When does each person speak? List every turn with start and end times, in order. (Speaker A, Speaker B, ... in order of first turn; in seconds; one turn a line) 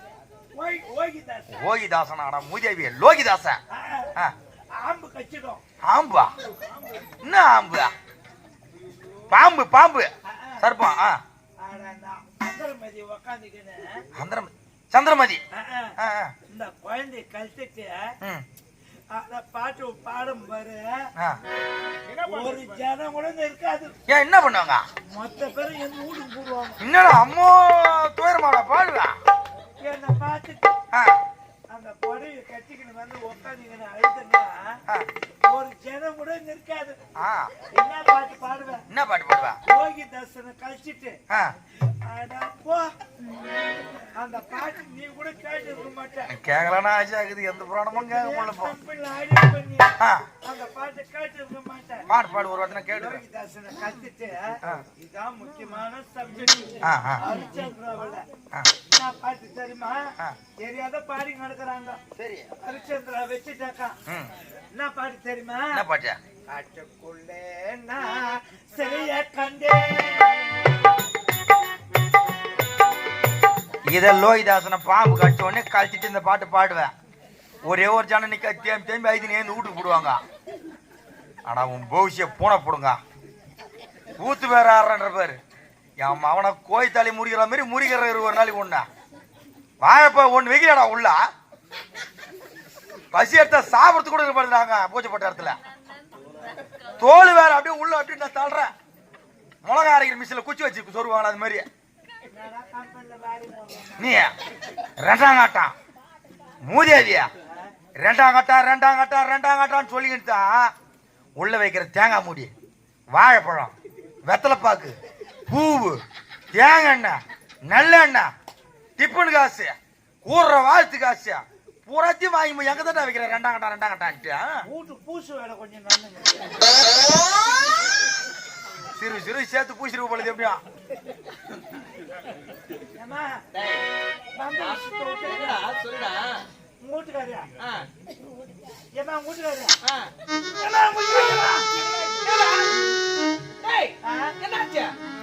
Speaker A: 0.5-1.7
Speaker B: 1.5-3.6
Speaker A: 3.7-4.1
Speaker A: 4.7-5.6
Speaker B: 5.9-6.3
Speaker A: 6.4-7.2
Speaker B: 7.2-7.9
Speaker B: 9.3-11.2
Speaker A: 10.2-10.7
Speaker A: 11.6-14.0
Speaker B: 14.2-15.4
Speaker A: 15.5-15.9
Speaker B: 16.0-16.3
Speaker A: 16.5-18.1
Speaker A: 19.1-21.1
Speaker C: 22.1-22.8
Speaker A: 22.2-23.9
Speaker B: 24.1-24.8
Speaker A: 25.1-26.8
Speaker B: 26.8-29.1
Speaker A: 29.8-30.7
Speaker B: 30.9-31.2
Speaker A: 31.7-34.7
Speaker A: 35.4-37.0
Speaker B: 37.2-37.5
Speaker A: 37.7-38.8
Speaker B: 38.9-39.6
Speaker A: 39.6-41.2
Speaker B: 41.3-41.5
Speaker A: 42.0-42.9
Speaker A: 44.1-46.3
Speaker B: 46.3-48.7
Speaker A: 47.9-52.1
Speaker B: 50.0-50.3
Speaker B: 52.1-53.2
Speaker A: 52.9-58.3
Speaker B: 56.8-57.2
Speaker A: 58.9-60.1
Speaker A: 60.6-62.0
Speaker B: 62.1-62.5
Speaker A: 62.6-64.0
Speaker B: 64.1-64.3
Speaker A: 64.7-65.8
Speaker B: 65.7-66.2
Speaker A: 66.5-70.8
Speaker B: 73.9-76.9
Speaker B: 77.6-80.2
Speaker B: 81.5-83.0
Speaker B: 84.2-85.4
Speaker B: 86.0-88.8
Speaker B: 89.8-91.2
Speaker B: 93.1-95.6
Speaker B: 97.0-98.7
Speaker B: 99.6-101.7
Speaker A: 102.3-104.2
Speaker B: 104.0-104.3
Speaker B: 105.0-105.7
Speaker B: 106.6-107.3
Speaker A: 107.4-107.7
Speaker B: 108.0-110.7
Speaker B: 111.4-112.5
Speaker B: 113.1-115.0
Speaker B: 115.5-116.0
Speaker B: 116.5-118.3
Speaker B: 119.0-124.6
Speaker A: 124.7-126.8
Speaker B: 128.9-130.6
Speaker A: 132.9-133.4
Speaker C: 133.5-133.8
Speaker A: 134.3-135.6
Speaker C: 134.6-136.4
Speaker A: 136.8-137.5
Speaker C: 137.6-137.9
Speaker A: 138.9-139.7
Speaker C: 139.8-140.1
Speaker A: 140.6-141.8
Speaker C: 141.8-142.8
Speaker C: 143.6-144.9
Speaker A: 144.0-144.3